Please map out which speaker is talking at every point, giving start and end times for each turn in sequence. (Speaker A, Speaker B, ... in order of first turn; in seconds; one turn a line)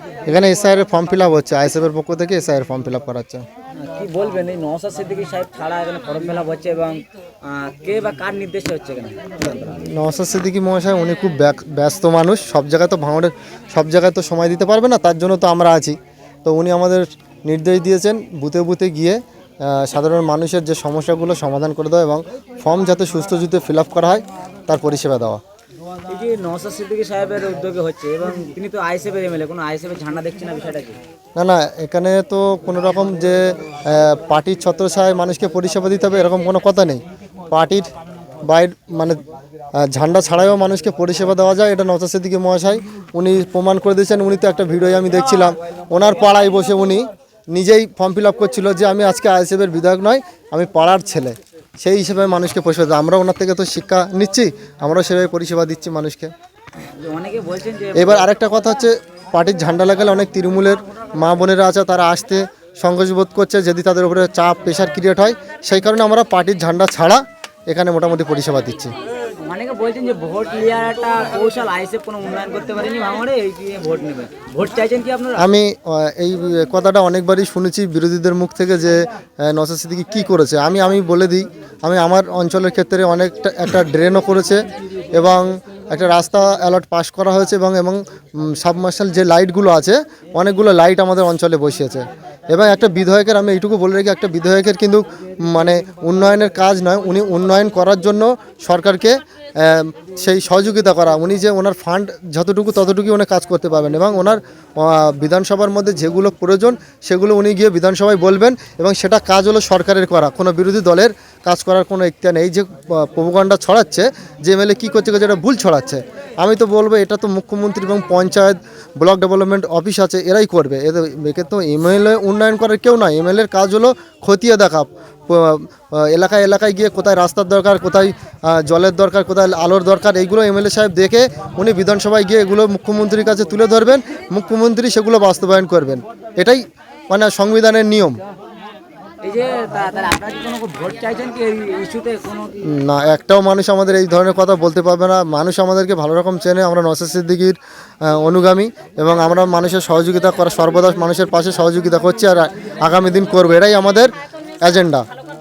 Speaker A: 0.3-3.4
Speaker B: 3.8-9.8
Speaker A: 9.8-25.4
Speaker B: 26.1-31.0
Speaker A: 31.4-37.9
Speaker A: 38.5-39.2
Speaker A: 39.8-56.3
Speaker B: 56.8-58.3
Speaker A: 57.9-68.9
Speaker B: 69.4-75.5
Speaker A: 75.4-138.2
Speaker B: 139.2-142.6
Speaker A: 142.6-154.1
Speaker A: 154.6-155.0